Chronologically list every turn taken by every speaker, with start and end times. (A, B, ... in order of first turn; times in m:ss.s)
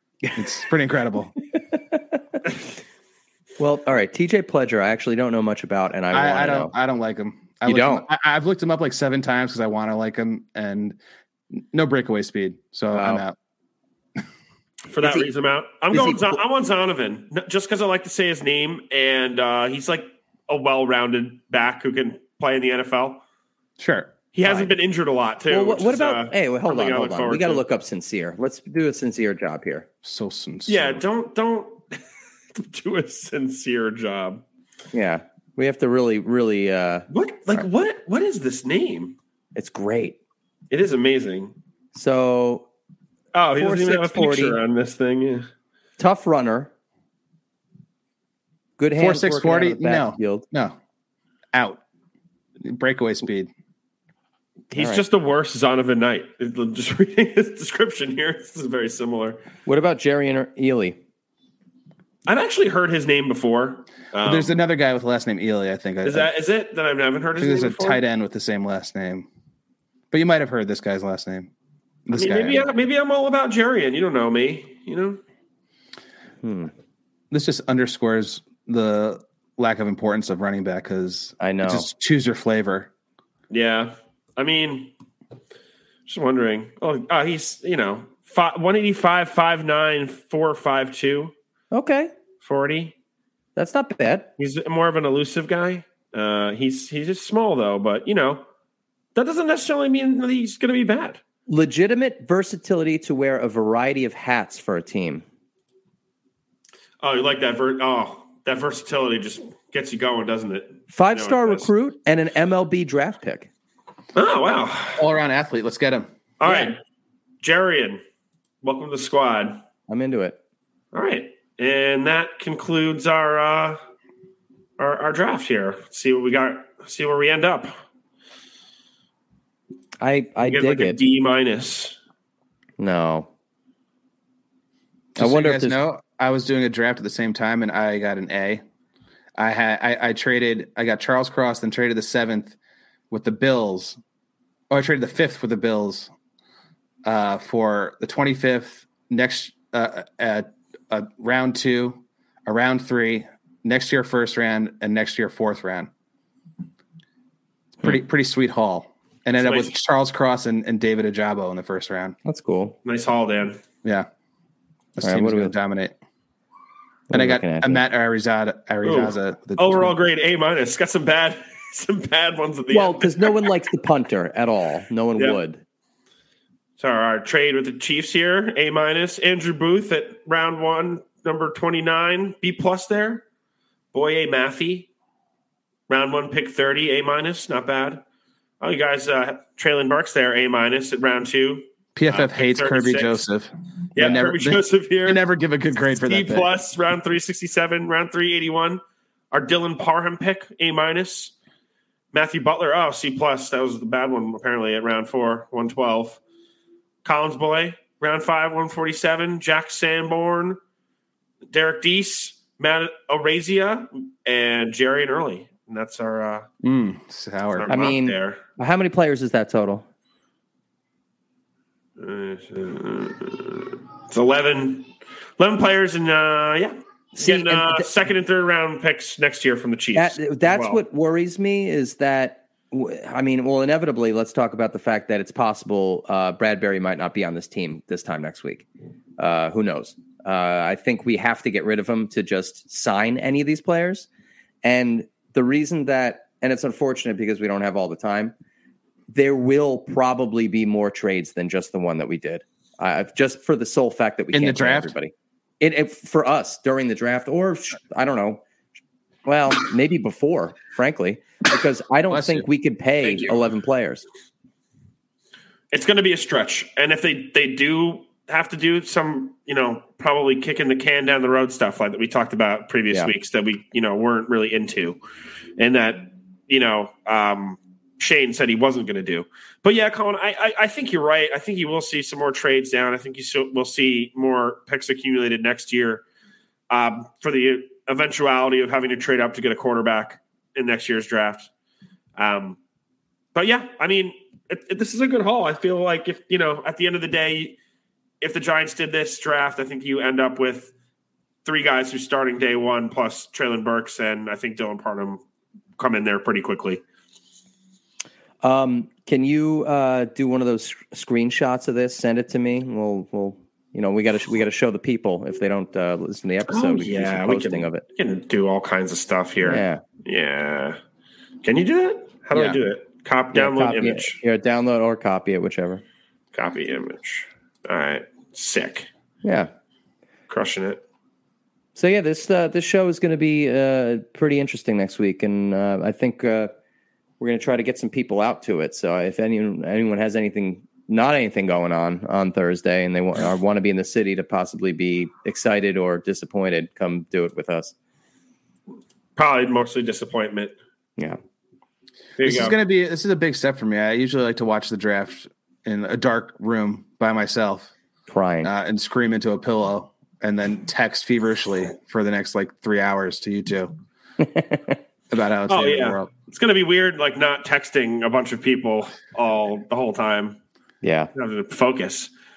0:00.4-0:01.4 A
0:01.7-0:02.0 B
0:03.6-0:06.7 B
0:06.1-0:11.0 A
0:07.6-0:08.1 B
0:11.5-0:13.4 A
0:12.9-0:13.2 B
0:14.9-0:23.2 C
0:15.0-0:15.3 B
0:15.9-0:16.4 B
0:23.8-0:24.2 A
0:24.3-0:27.6 C
0:24.4-0:24.7 B
0:25.5-0:29.9 B
0:30.0-0:31.0 A
0:30.7-0:32.0 C
0:32.6-0:34.4 C
0:34.9-0:37.1 B
0:37.1-0:39.2 C
0:39.6-0:40.2 B
0:40.7-0:41.5 C
0:41.9-0:42.7 B
0:43.3-0:45.5 C
0:43.6-0:44.6 B
0:46.0-0:46.7 B
0:48.8-0:50.5 B
0:49.0-0:50.8 A
0:51.5-0:51.8 A
0:52.6-0:53.5 A
0:54.7-0:59.4 C
0:54.7-0:55.0 B
0:59.7-1:01.0 B
1:02.3-1:04.6 C
1:04.2-1:06.3 A
1:06.0-1:08.0 C
1:07.4-1:09.3 A
1:10.1-1:11.5 A
1:12.1-1:12.7 A
1:12.1-1:15.2 C
1:16.4-1:16.7 B
1:17.3-1:22.9 A
1:21.4-1:21.9 B
1:23.5-1:24.9 C
1:26.1-1:31.3 C
1:31.7-1:32.1 B
1:32.4-1:33.0 C
1:33.6-1:34.3 B
1:34.4-1:38.4 C
1:39.2-1:41.2 C
1:41.5-1:45.2 B
1:47.0-1:51.7 C
1:50.9-1:53.5 B
1:54.2-1:55.0 C
1:55.0-1:56.1 A
1:56.4-1:56.8 C
1:56.4-1:56.8 B
1:57.4-1:58.0 C
1:58.6-1:59.6 C
1:59.9-2:00.4 B
2:00.9-2:03.8 C
2:04.8-2:07.7 C
2:10.0-2:11.0 B
2:10.4-2:12.0 C
2:12.8-2:13.3 B
2:15.2-2:18.6 A
2:15.2-2:15.8 B
2:19.4-2:22.6 A
2:23.1-2:24.0 A
2:24.7-2:26.1 A
2:27.0-2:35.9 A
2:37.8-2:42.2 A
2:39.4-2:39.8 C
2:42.2-2:42.8 B
2:42.9-2:43.6 C
2:45.0-2:46.0 A
2:45.0-2:45.5 B
2:47.1-2:47.8 B
2:47.1-2:50.0 A
2:48.8-2:53.5 C
2:52.7-2:55.6 B
2:56.8-3:03.2 C
3:03.9-3:04.9 C
3:05.9-3:08.0 C
3:08.6-3:13.3 C
3:12.0-3:16.5 A
3:14.0-3:15.2 C
3:15.8-3:21.3 C
3:22.1-3:26.2 C
3:27.0-3:30.6 C
3:31.5-3:36.5 C
3:36.6-3:37.7 A
3:37.5-3:38.4 C
3:37.7-3:39.8 B
3:42.0-3:50.8 C
3:47.1-3:47.9 B
3:49.9-3:58.7 B
3:59.2-4:04.1 B
4:04.6-4:08.3 B
4:09.1-4:18.4 B
4:14.3-4:14.9 A
4:19.3-4:24.0 B
4:22.1-4:22.5 A
4:23.1-4:23.4 C
4:25.7-4:35.0 C
4:35.6-4:46.0 C
4:46.7-4:51.5 C
4:52.2-4:52.6 C
4:53.4-4:57.6 C
4:58.2-5:00.7 C
5:01.4-5:05.2 C
5:05.8-5:06.8 C
5:08.4-5:17.8 B
5:16.5-5:20.8 C
5:19.4-5:19.8 B
5:21.4-5:24.2 C
5:22.3-5:22.6 B
5:23.3-5:25.8 B
5:26.3-5:28.9 C
5:29.2-5:29.5 B
5:30.3-5:30.8 C
5:31.8-5:36.5 B
5:37.2-5:47.7 B
5:49.2-5:50.5 C
5:52.2-5:52.6 C
5:52.2-5:57.7 A
5:58.1-5:58.5 B
5:58.4-6:03.7 A
6:04.2-6:04.8 B
6:05.1-6:06.1 A
6:05.5-6:10.4 C
6:10.8-6:11.1 B
6:11.2-6:12.1 C